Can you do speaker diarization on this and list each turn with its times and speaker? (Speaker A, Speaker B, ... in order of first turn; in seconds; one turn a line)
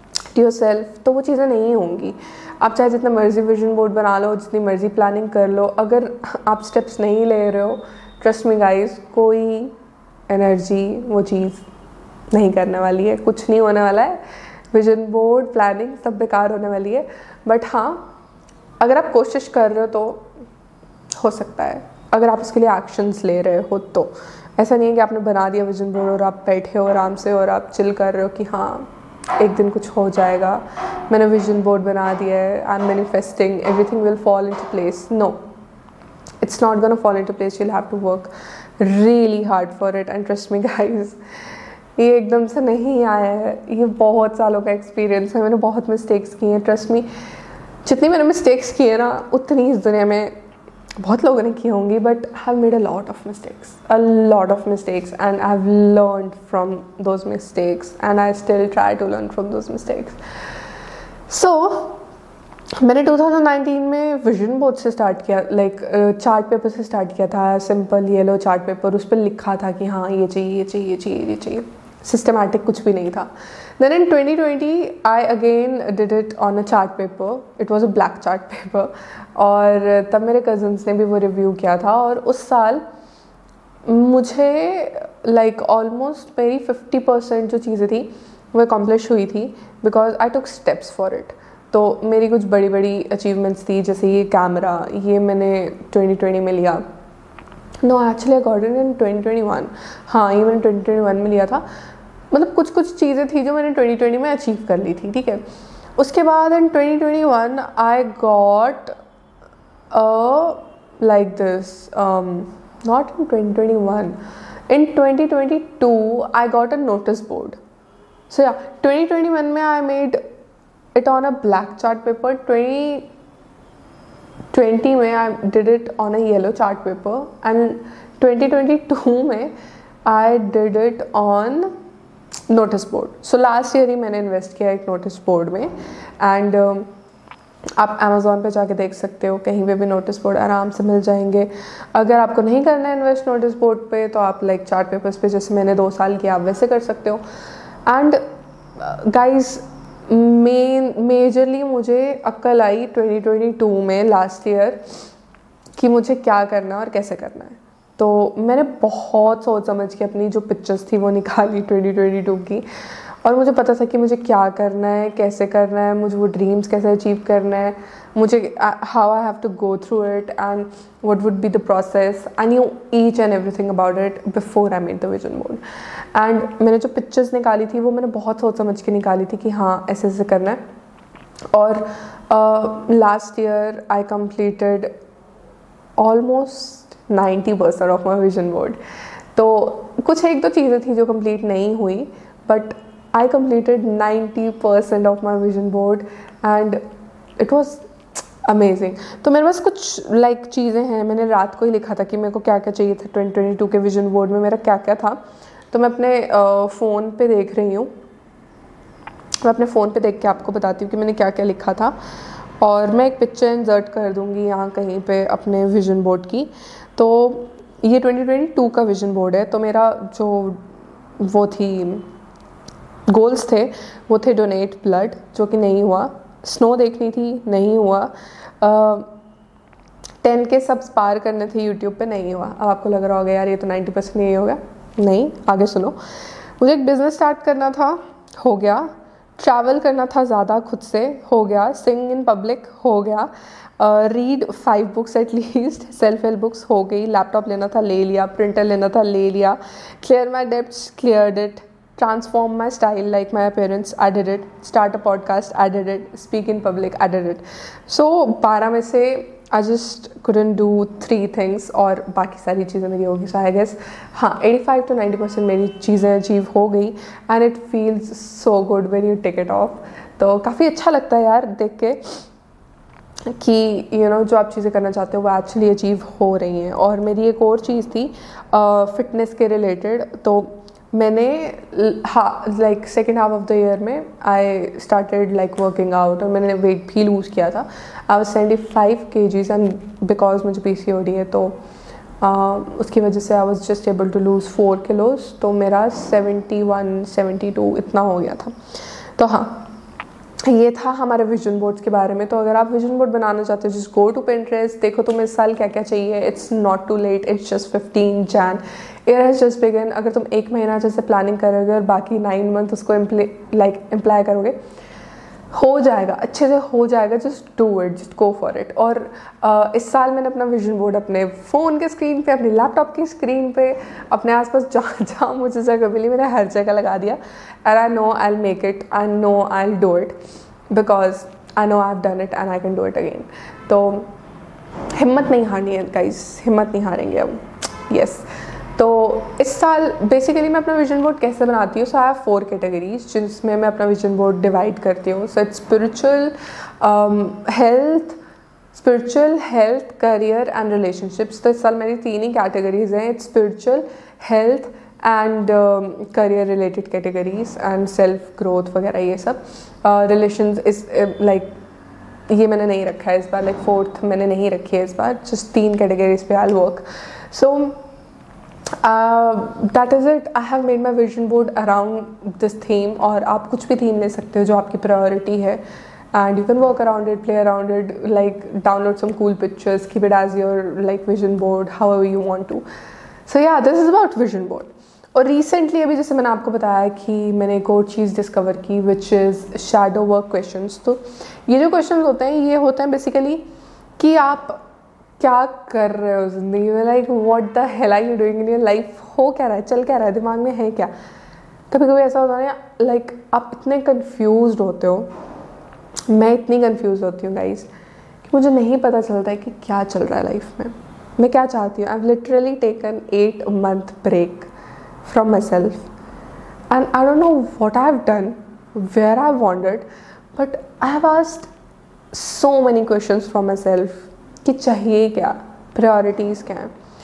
Speaker A: 0.3-9.7
Speaker A: 10.3-11.7
Speaker A: 12.3-14.2
Speaker A: 14.7-18.1
Speaker A: 18.8-20.3
Speaker A: 21.2-35.4
Speaker A: 36.4-41.2
Speaker A: 42.0-47.1
Speaker A: 47.8-50.3
Speaker A: 51.0-60.2
Speaker A: 61.3-62.0
Speaker A: 62.8-82.8
Speaker A: 83.8-96.8
Speaker A: 97.8-101.6
Speaker A: 102.3-105.4
Speaker A: 106.0-109.0
Speaker A: 109.9-114.2
Speaker A: 114.7-117.6
Speaker A: 118.3-120.2
Speaker A: 120.9-123.1
Speaker A: 124.5-129.5
Speaker A: 130.1-131.8
Speaker A: 132.5-136.9
Speaker A: 137.8-147.2
Speaker A: 147.9-148.2
Speaker A: 148.8-154.8
Speaker A: 155.8-162.6
Speaker A: 163.2-175.6
Speaker A: 176.1-180.6
Speaker A: 181.5-184.9
Speaker A: 186.0-188.8
Speaker A: 189.3-196.8
Speaker A: 197.4-197.9
Speaker A: 198.4-207.9
Speaker A: 209.4-211.9
Speaker A: 212.6-220.6
Speaker A: 221.2-222.1
Speaker A: 223.1-229.1
Speaker A: 230.2-236.0
Speaker A: 236.6-272.2
Speaker A: 273.3-291.6
Speaker A: 292.2-298.5
Speaker A: 299.2-299.7
Speaker A: 300.4-314.6
Speaker A: 315.5-330.2
Speaker A: 330.7-334.1
Speaker A: 334.9-348.2
Speaker A: 348.7-361.6
Speaker A: 362.3-367.8
Speaker A: 368.8-375.6
Speaker A: 376.1-382.6
Speaker A: 383.3-393.4
Speaker A: 394.0-394.6
Speaker A: 395.2-400.9
Speaker A: 401.7-405.1
Speaker A: 406.1-407.7
Speaker A: 408.3-414.5
Speaker A: 415.0-415.9
Speaker A: 416.7-421.5
Speaker A: 422.1-426.7